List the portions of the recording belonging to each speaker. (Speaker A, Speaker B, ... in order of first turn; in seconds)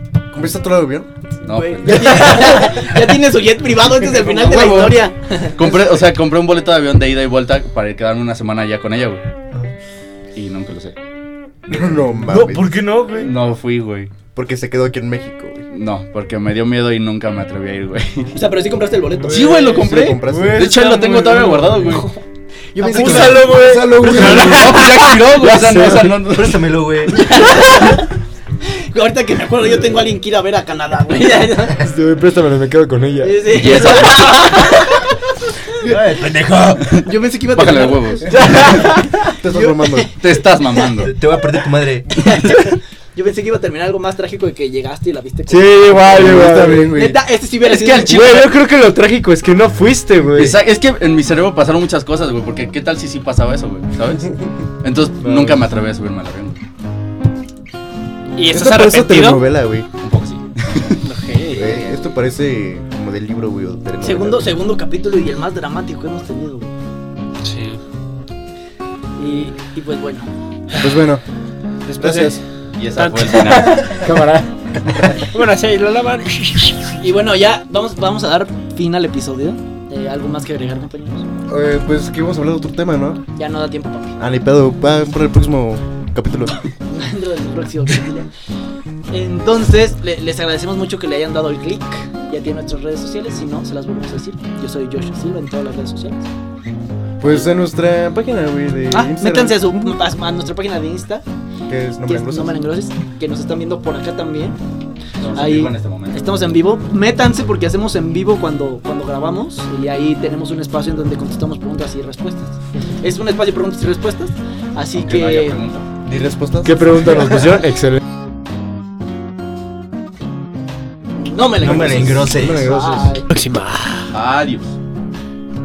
Speaker A: 0.3-1.1, 4.0-5.0, 11.7-12.8, 14.3-15.7, 19.3-20.8, 22.8-24.9, 39.3-40.1, 46.0-47.2, 58.5-59.9, 61.5-64.5, 70.8-71.2, 72.0-72.4, 81.5-83.2, 84.2-86.6, 97.2-100.0, 101.7-102.6, 116.0-117.6, 121.6-123.1
Speaker B: 1.4-2.7, 5.5-9.2, 10.3-10.9, 13.2-14.1, 15.7-18.4, 19.3-22.1, 24.4-26.8, 33.5-34.5, 37.5-38.5, 40.2-41.1, 47.6-48.5, 50.3-56.6, 60.0-61.0, 72.7-74.0, 105.2-106.4, 114.9-115.9, 124.1-124.7
Speaker C: 1.4-5.8, 18.3-19.9, 22.7-24.5, 27.1-28.1, 28.9-31.8, 33.2-35.1, 37.0-38.5, 39.5-40.8, 42.1-46.2, 46.9-48.2, 64.0-66.7, 69.2-70.3, 77.0-81.3, 83.3-84.1, 86.9-88.3, 89.1-96.3, 98.9-101.2, 102.0-104.6, 105.3-115.7, 121.2-123.3
Speaker D: 12.2-13.3, 20.1-22.1, 22.8-26.3, 31.8-33.9, 38.3-39.2, 45.5-47.0, 48.0-50.6, 55.2-55.6, 73.5-74.5, 116.6-118.0
Speaker E: 26.3-27.5, 35.8-37.0, 41.0-42.1, 121.6-122.9
Speaker F: 58.3-59.5, 61.0-61.8, 67.4-67.8, 71.9-74.0, 75.0-77.0, 123.3-124.1